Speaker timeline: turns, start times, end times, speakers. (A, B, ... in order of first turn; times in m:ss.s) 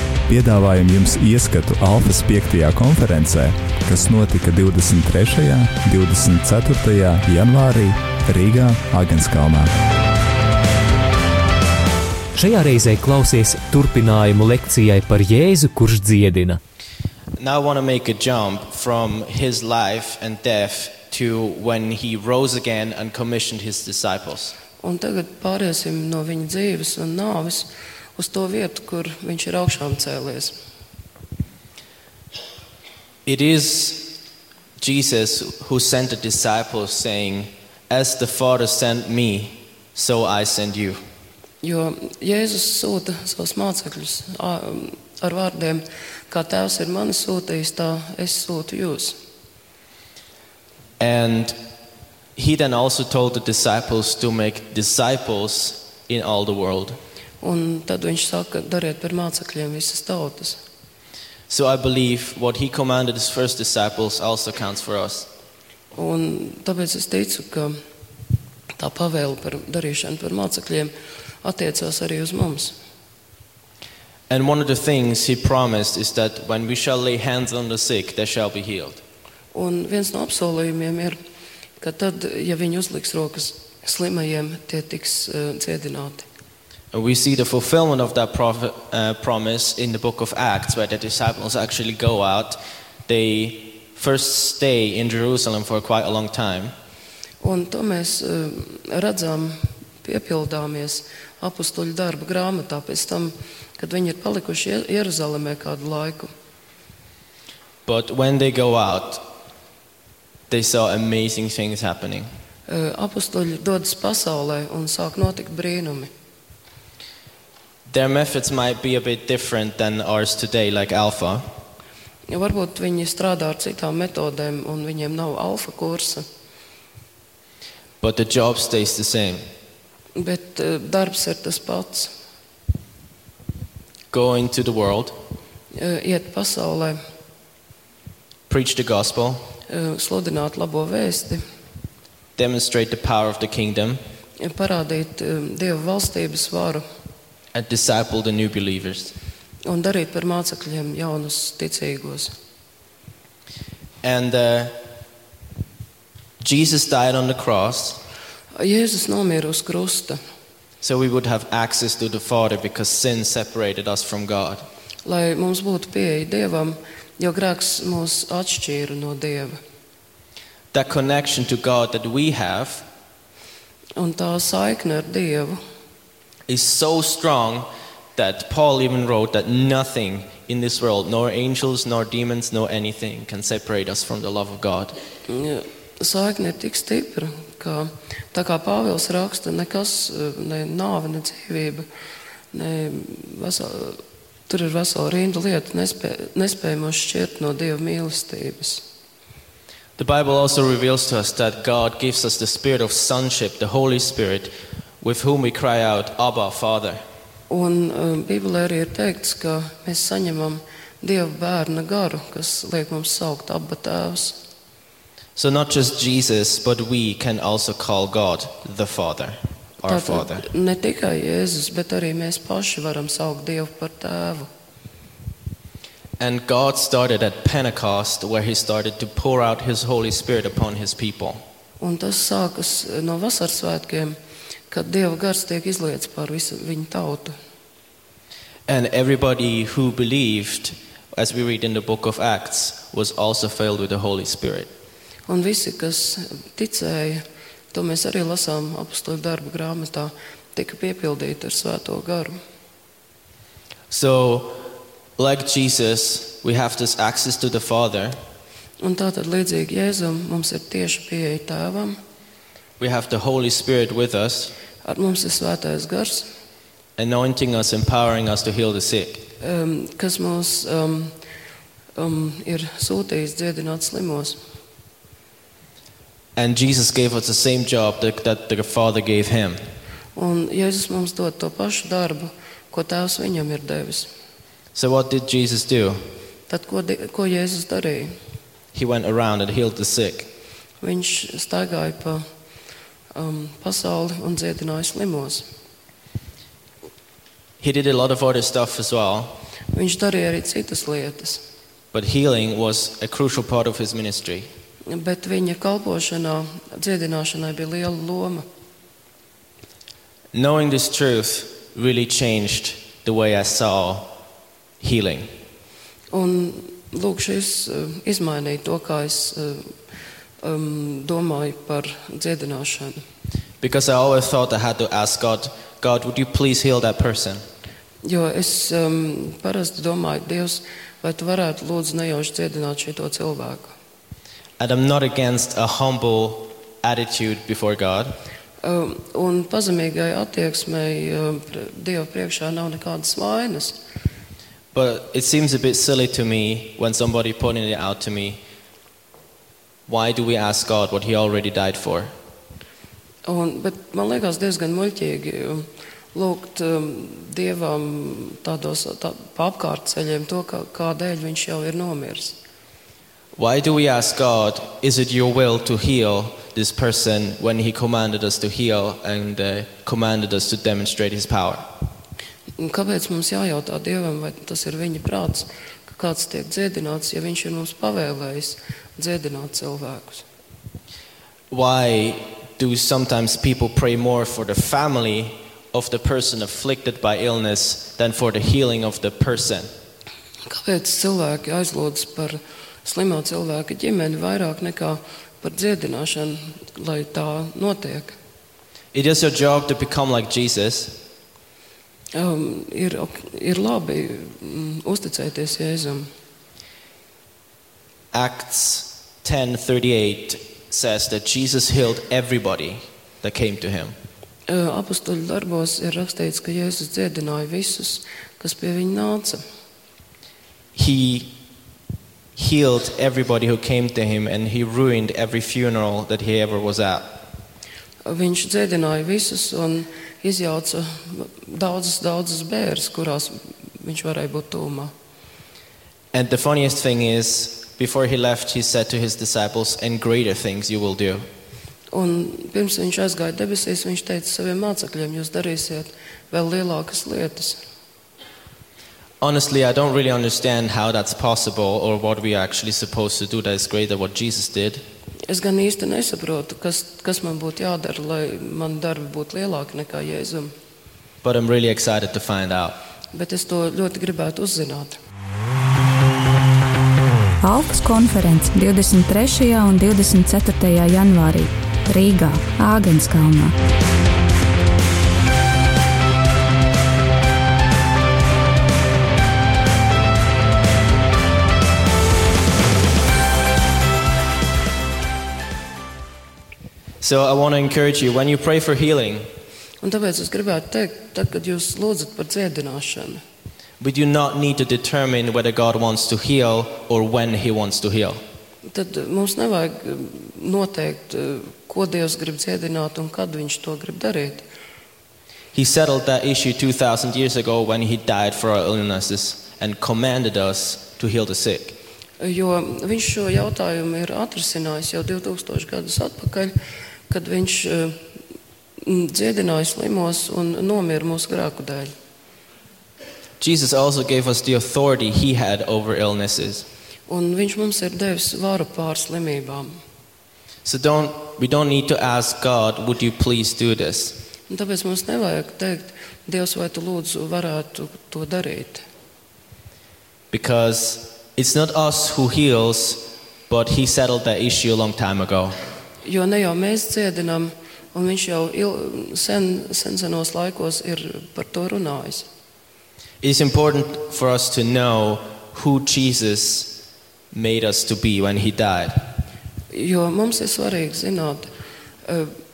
0:00.3-0:09.7 A
0:12.3-0:16.6 B
0:17.4-0:24.6 C
0:24.8-0:30.6 D
0:33.3-0:34.2 C
0:34.8-0:41.0 C
0:41.6-0:49.2 D
0:51.0-0:51.6 C
0:52.4-0:57.0 C
0:57.4-1:00.6 D
1:01.5-1:05.3 C
1:06.0-1:07.8 D
1:08.8-1:12.8 D
1:14.3-1:19.0 C
1:19.5-1:21.2 D
1:21.8-1:26.2 D
1:26.9-1:36.8 C
1:37.4-1:46.3 D
1:47.9-1:49.3 C
1:50.5-1:52.3 C
1:52.7-1:56.1 D
1:57.9-2:01.4 C
2:02.3-2:06.2 D
2:08.0-2:09.4 C
2:10.2-2:12.1 D
2:14.1-2:15.2 C
2:15.8-2:17.0 D
2:18.5-2:19.4 C
2:19.7-2:21.4 D
2:22.4-2:24.0 C
2:24.4-2:26.8 D
2:27.5-2:29.1 C
2:29.6-2:32.3 D
2:34.0-2:34.8 C
2:36.4-2:38.0 C
2:38.6-2:40.2 D
2:40.8-2:44.7 C
2:45.0-2:49.6 D
2:50.7-2:52.9 C
2:54.0-2:55.6 D
2:56.5-3:05.0 C
3:05.3-3:11.9 D
3:12.5-3:18.8 D
3:20.0-3:27.0 C
3:27.5-3:34.4 D
3:35.4-3:40.4 C
3:39.9-3:44.5 D
3:46.2-3:51.4 C
3:51.8-3:54.2 D
3:54.7-3:57.4 D
3:58.7-4:04.7 C
4:05.3-4:12.4 D
4:13.9-4:14.6 C
4:15.2-4:18.2 C
4:18.8-4:22.0 D
4:22.8-4:24.5 C
4:24.8-4:26.3 D
4:27.0-4:29.2 C
4:29.4-4:31.1 D
4:32.0-4:34.4 D
4:36.4-4:39.6 C
4:40.2-4:44.1 D
4:44.8-4:46.0 C
4:46.5-4:48.2 D
4:48.7-4:50.3 C
4:50.8-4:52.2 D
4:53.2-4:55.5 D
4:57.6-4:59.4 C
4:59.7-5:01.4 D
5:01.9-5:04.5 C
5:04.9-5:08.4 D
5:10.3-5:14.2 C
5:14.8-5:15.3 C
5:16.1-5:19.7 D
5:20.4-5:23.0 D
5:23.6-5:27.4 C
5:28.0-5:33.7 D
5:34.6-5:38.2 C
5:38.6-5:43.8 D
5:44.7-5:48.4 C
5:49.9-5:52.1 C
5:53.2-6:02.4 D
6:03.4-6:11.6 C
6:12.6-6:20.2 D
6:21.5-6:29.7 C
6:30.5-6:38.2 D
6:38.9-6:41.0 C
6:42.1-6:46.1 D
6:48.1-6:54.0 C
6:54.5-6:59.4 D
7:00.8-7:01.3 C
7:02.4-7:07.2 C
7:08.0-7:14.9 D
7:16.1-7:21.3 C
7:21.9-7:27.6 D
7:29.2-7:34.8 C
7:35.3-7:40.5 D
7:41.2-7:42.8 C
7:43.1-7:45.0 D
7:47.4-7:53.6 E
8:07.0-8:09.3 C
8:09.8-8:13.2 D
8:13.8-8:18.2 C
8:18.7-8:24.4 D
8:25.5-8:31.8 C
8:32.2-8:36.5 D
8:37.1-8:38.0 D
8:38.8-8:41.9 D
8:43.4-8:46.7 C
8:47.1-8:49.8 D
8:50.6-8:54.2 C
8:54.5-8:58.8 D
9:00.3-9:05.6 C
9:06.0-9:12.3 D
9:13.2-9:16.8 C
9:17.3-9:19.1 C
9:19.7-9:21.5 D
9:22.1-9:22.3 D